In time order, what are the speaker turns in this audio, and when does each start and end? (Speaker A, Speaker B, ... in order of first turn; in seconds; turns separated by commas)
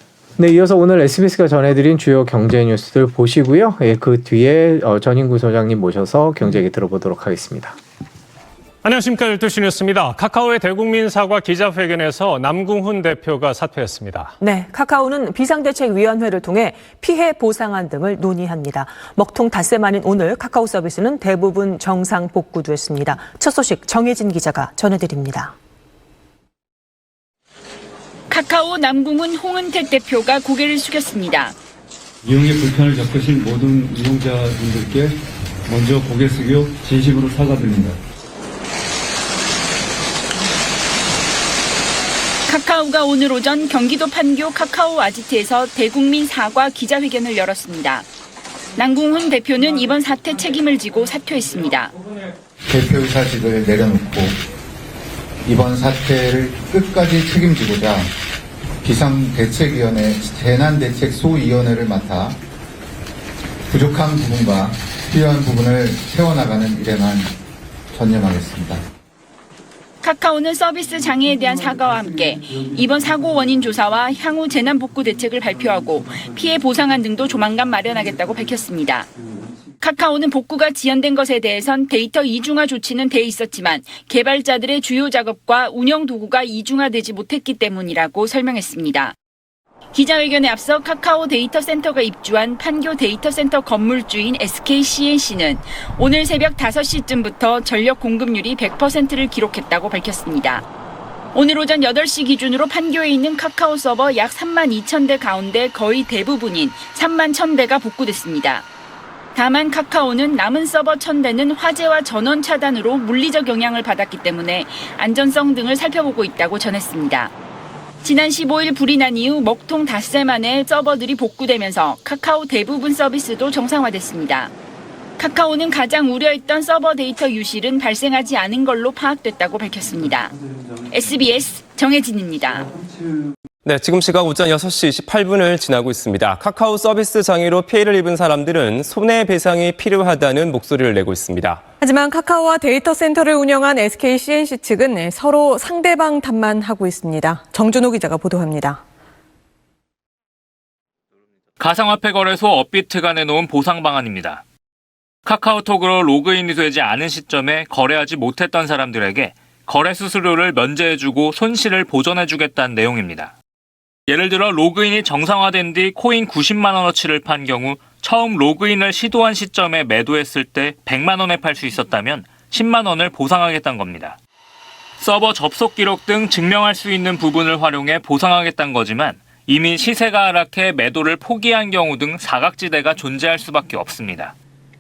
Speaker A: 0.4-7.8, Speaker B: 8.8-14.3, Speaker C: 14.4-25.5, Speaker D: 28.3-31.5, Speaker E: 32.2-38.0, Speaker D: 42.5-48.1, Speaker D: 48.8-51.9, Speaker F: 52.6-54.4, Speaker F: 55.4-58.1, Speaker F: 58.8-62.4, Speaker F: 63.7-67.3, Speaker F: 67.9-68.8, Speaker D: 70.0-79.1, Speaker D: 79.8-89.1, Speaker D: 89.9-100.7, Speaker D: 101.3-108.7, Speaker D: 109.3-117.3, Speaker D: 118.0-124.5, Speaker D: 125.2-130.3, Speaker D: 130.9-132.7, Speaker G: 133.6-141.6, Speaker H: 141.8-148.8, Speaker I: 151.6-154.4, Speaker I: 155.2-163.3, Speaker I: 164.1-174.2, Speaker I: 175.0-184.3